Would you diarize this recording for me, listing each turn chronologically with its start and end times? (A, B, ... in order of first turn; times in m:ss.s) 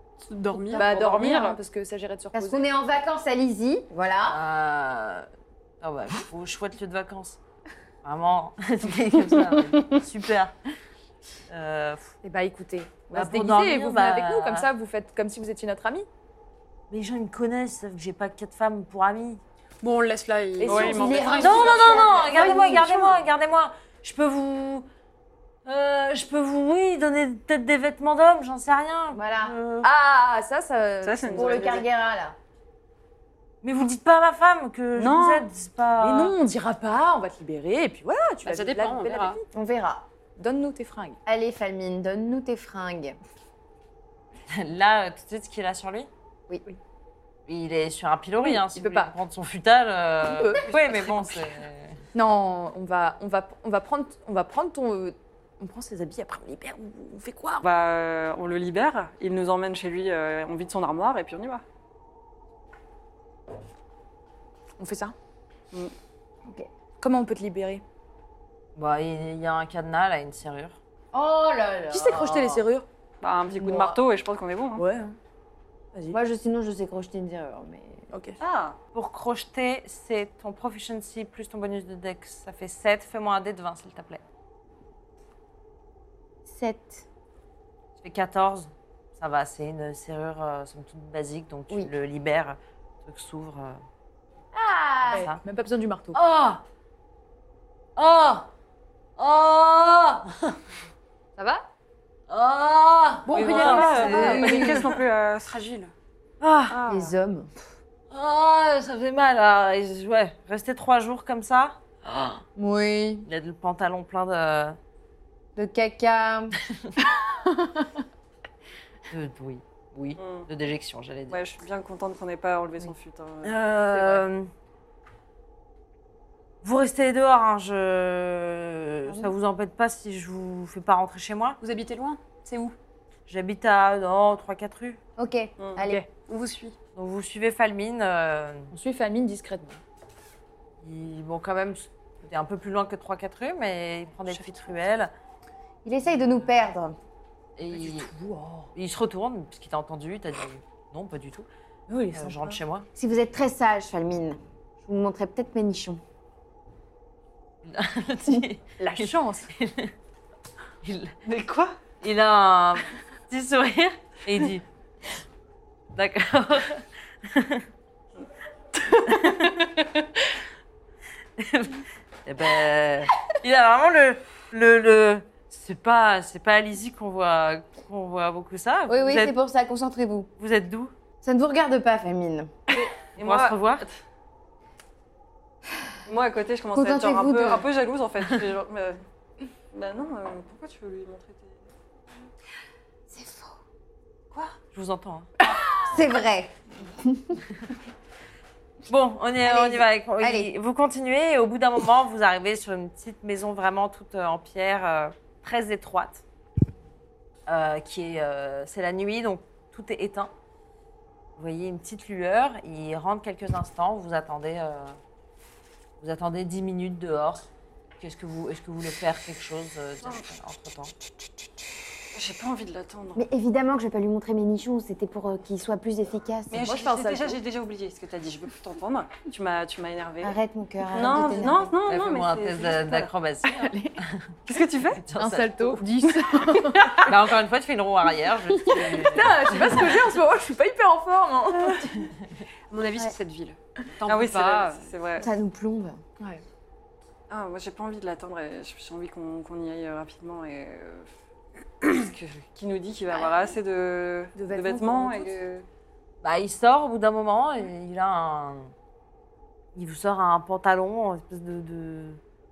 0:00.2-0:00.9 A
0:00.5-0:01.6 B
0:00.7-0:02.6 C
0:02.3-0:04.4 D
0:04.2-0:05.3 E
0:05.8-0:07.4 E
0:08.0-0:10.5 E
0:09.5-0:10.0 B
0:11.5-0:12.1 E
0:12.2-0:16.1 C
0:13.1-0:14.7 E
0:16.9-0:19.4 E
0:19.8-0:23.2 A
0:20.6-0:22.8 C
0:20.6-0:22.0 B
0:21.4-0:24.9 E
0:25.6-0:29.9 E
0:29.1-0:29.6 D
0:29.8-0:31.8 C
0:31.0-0:31.8 B
0:31.3-0:32.4 D
0:33.6-0:36.4 E
0:35.0-0:35.5 B
0:36.0-0:39.4 C
0:38.4-0:39.4 A
0:39.5-0:40.1 D
0:40.4-0:41.2 C
0:41.2-0:43.2 D
0:44.5-0:46.1 E
0:47.5-0:52.0 E
0:48.4-0:49.1 C
0:50.2-0:50.7 C
0:52.1-0:57.6 C
0:57.6-1:01.6 B
1:04.8-1:05.1 C
1:07.0-1:07.8 C
1:08.7-1:10.8 E
1:11.1-1:12.6 D
1:11.9-1:12.8 C
1:13.2-1:14.8 B
1:13.6-1:13.9 C
1:14.8-1:15.2 C
1:16.1-1:18.0 D
1:18.1-1:18.4 C
1:18.4-1:18.8 B
1:18.9-1:24.2 E
1:26.5-1:27.0 D
1:28.0-1:33.8 E
1:34.5-1:35.3 D
1:35.0-1:35.4 E
1:35.1-1:36.2 C
1:36.1-1:36.6 E
1:38.0-1:38.5 E
1:39.2-1:40.6 E
1:41.4-1:41.6 C
1:42.3-1:45.0 E
1:43.3-1:44.9 A
1:43.3-1:45.6 B
1:43.4-1:44.6 C
1:44.2-1:44.8 D
1:45.4-1:45.9 A
1:46.4-1:46.8 E
1:46.7-1:47.1 B
1:46.9-1:47.5 D
1:48.1-1:52.4 E
1:52.6-1:53.3 D
1:53.2-1:54.8 E
1:55.6-1:56.6 D
1:56.7-1:57.0 E
1:59.1-2:01.4 E
2:00.2-2:00.5 B
2:01.3-2:03.6 B
2:03.4-2:04.5 E
2:03.9-2:04.2 C
2:06.6-2:11.6 E
2:09.1-2:09.3 D
2:11.6-2:12.4 A
2:12.4-2:12.7 C
2:13.3-2:15.0 E
2:15.2-2:16.0 D
2:15.6-2:15.8 B
2:16.2-2:16.8 A
2:16.9-2:18.7 E
2:18.7-2:19.8 C
2:20.8-2:25.1 E
2:24.3-2:24.6 C
2:25.8-2:27.0 D
2:27.6-2:28.1 E
2:27.7-2:28.7 C
2:28.7-2:31.5 E
2:31.9-2:32.6 C
2:32.1-2:32.9 E
2:33.0-2:36.0 D
2:37.6-2:39.9 E
2:38.8-2:39.5 C
2:40.8-2:41.2 E
2:41.2-2:41.8 B
2:42.0-2:44.6 E
2:45.9-2:47.7 E
2:48.7-2:49.8 B
2:49.0-2:50.0 E
2:51.4-2:59.3 E
2:58.9-3:00.3 D
3:00.4-3:00.9 E
3:01.2-3:02.6 D
3:02.7-3:04.0 B
3:03.0-3:03.8 E
3:06.0-3:09.0 B
3:06.7-3:07.6 D
3:09.7-3:11.8 B
3:13.1-3:13.6 D
3:14.3-3:14.6 B
3:14.7-3:15.3 E
3:15.5-3:17.5 D
3:18.9-3:26.2 E
3:19.4-3:20.5 D
3:27.4-3:30.3 E
3:31.4-3:35.0 E
3:36.0-3:37.5 E
3:38.0-3:40.9 E
3:42.1-3:43.2 B
3:43.2-3:46.7 D
3:46.5-3:50.4 B
3:46.6-3:47.4 C
3:50.2-3:51.8 D
3:50.9-3:53.1 B
3:51.8-3:54.4 E
3:53.4-3:54.0 C
3:54.4-3:55.0 B
3:54.9-3:55.8 E
3:55.2-3:57.2 C
3:56.0-3:57.0 B
3:57.0-4:00.2 E
3:58.6-4:02.0 C
4:02.7-4:04.9 A
4:04.0-4:05.3 B
4:05.2-4:06.0 D
4:07.3-4:11.1 B
4:11.8-4:15.6 B
4:14.4-4:15.3 C
4:16.2-4:18.7 E
4:19.7-4:22.2 E